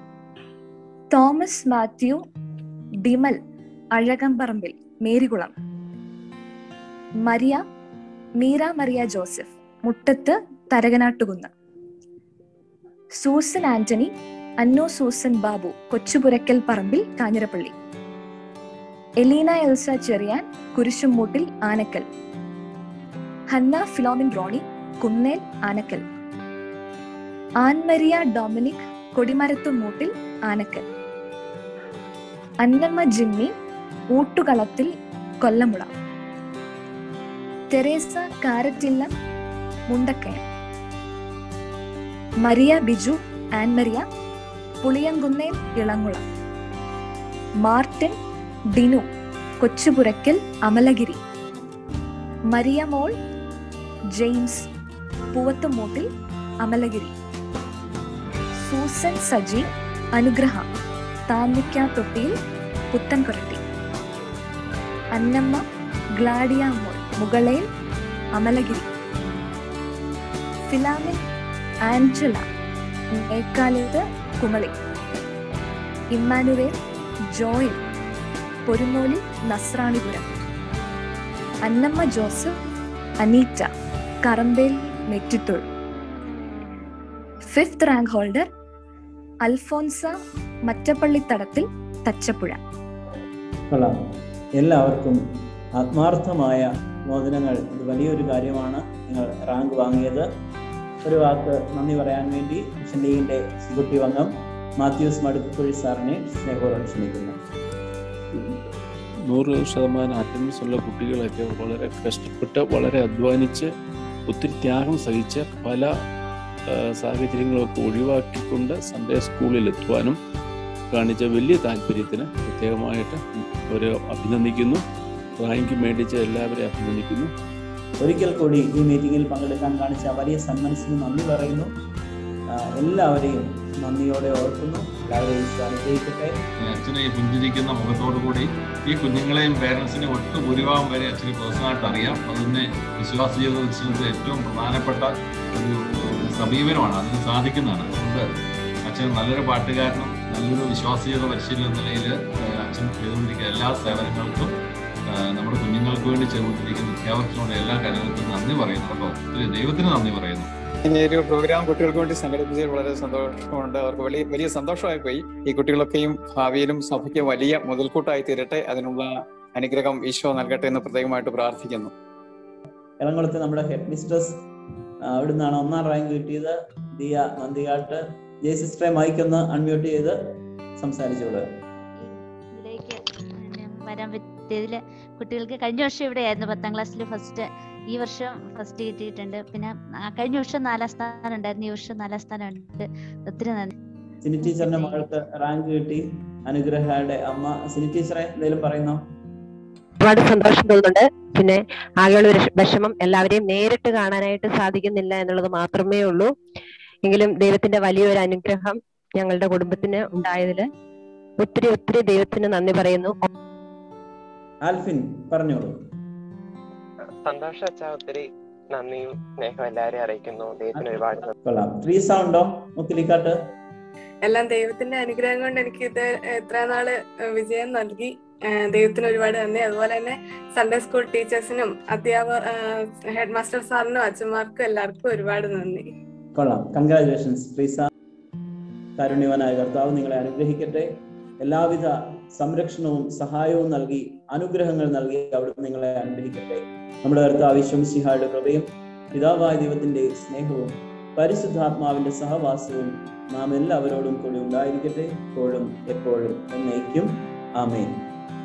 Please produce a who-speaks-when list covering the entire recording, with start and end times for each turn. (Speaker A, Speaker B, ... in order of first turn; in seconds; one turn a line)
Speaker A: 1.1-2.2
Speaker A: 3.0-3.4
Speaker A: 4.0-5.5
Speaker A: 7.2-7.6
Speaker A: 8.4-11.5
Speaker A: 13.2-17.7
Speaker A: 19.2-22.0
Speaker A: 23.5-26.0
Speaker A: 27.6-30.8
Speaker A: 32.6-33.5
Speaker A: 34.1-35.9
Speaker A: 37.7-39.1
Speaker A: 39.9-40.4
Speaker A: 42.4-44.0
Speaker A: 44.8-46.2
Speaker A: 47.6-48.1
Speaker A: 48.7-49.0
Speaker A: 49.6-51.2
Speaker A: 52.5-53.1
Speaker A: 54.2-54.7
Speaker A: 55.3-56.1
Speaker A: 56.6-57.1
Speaker A: 58.6-60.6
Speaker A: 61.3-62.3
Speaker A: 62.9-63.6
Speaker A: 65.2-65.6
Speaker A: 66.2-67.7
Speaker A: 68.3-68.9
Speaker A: 70.7-71.2
Speaker A: 71.9-72.4
Speaker A: 73.2-74.7
Speaker A: 76.1-76.7
Speaker A: 77.3-77.8
Speaker A: 78.7-80.2
Speaker A: 81.7-82.6
Speaker A: 83.2-83.7
Speaker A: 84.2-85.7
Speaker A: 87.5-88.5
Speaker A: 89.4-90.1
Speaker A: 90.7-92.6
Speaker B: 94.6-95.2
Speaker B: 95.8-100.3
Speaker B: 101.0-107.3
Speaker C: 109.3-113.7
Speaker C: 114.3-115.9
Speaker C: 117.0-120.2
Speaker C: 120.9-124.8
Speaker C: 125.4-127.3
Speaker B: 128.0-131.7
Speaker B: 132.8-136.3
Speaker D: 136.6-148.3
Speaker D: 148.8-154.5
Speaker D: 155.1-162.8
Speaker E: 161.0-169.0
Speaker D: 166.5-167.8
Speaker D: 168.3-168.9
Speaker D: 169.6-170.5
Speaker E: 169.6-171.8
Speaker B: 173.0-174.4
Speaker B: 175.1-180.2
Speaker B: 180.8-181.4
Speaker F: 182.0-193.7
Speaker B: 194.2-199.0
Speaker F: 194.4-195.1
Speaker G: 200.0-206.3
Speaker G: 207.0-210.7
Speaker G: 211.4-213.2
Speaker B: 214.6-215.8
Speaker H: 217.2-221.3
Speaker B: 220.7-223.4
Speaker I: 224.2-235.9
Speaker B: 236.3-237.9
Speaker B: 239.0-258.1